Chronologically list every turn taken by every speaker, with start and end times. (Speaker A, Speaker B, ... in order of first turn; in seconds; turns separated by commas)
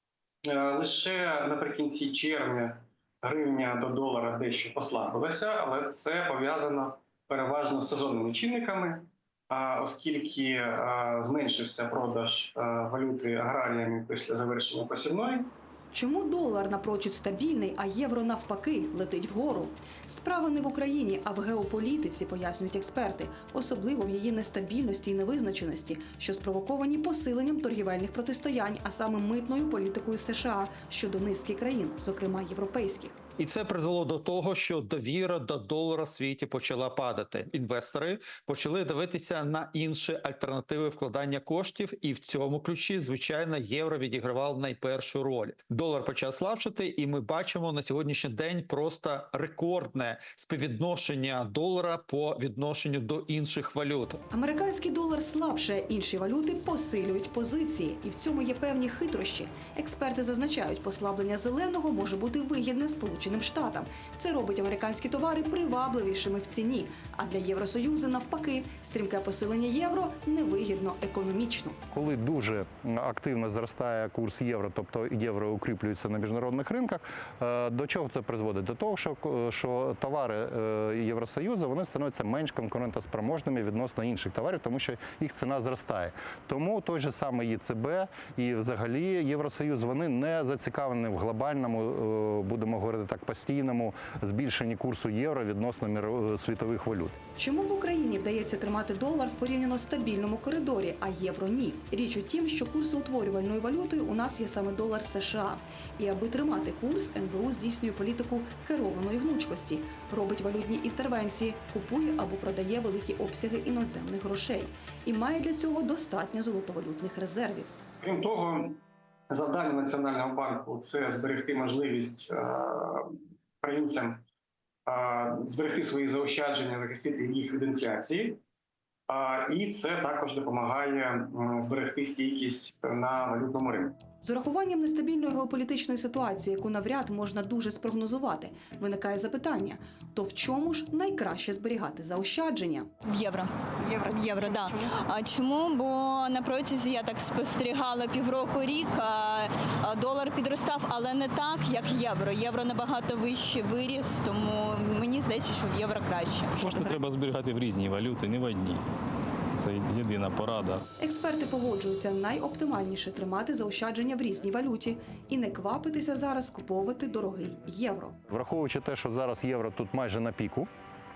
Speaker A: 0.5-15.5, Speaker B: 15.9-33.2, Speaker C: 33.4-54.2, Speaker B: 54.3-71.8, Speaker D: 71.9-97.2, Speaker B: 97.4-117.8, Speaker A: 118.0-124.2, Speaker A: 124.9-128.4, Speaker A: 129.1-134.0, Speaker B: 134.2-142.9, Speaker E: 143.1-157.0, Speaker F: 156.6-158.8, Speaker F: 159.6-160.8, Speaker B: 161.0-168.2, Speaker D: 168.3-170.7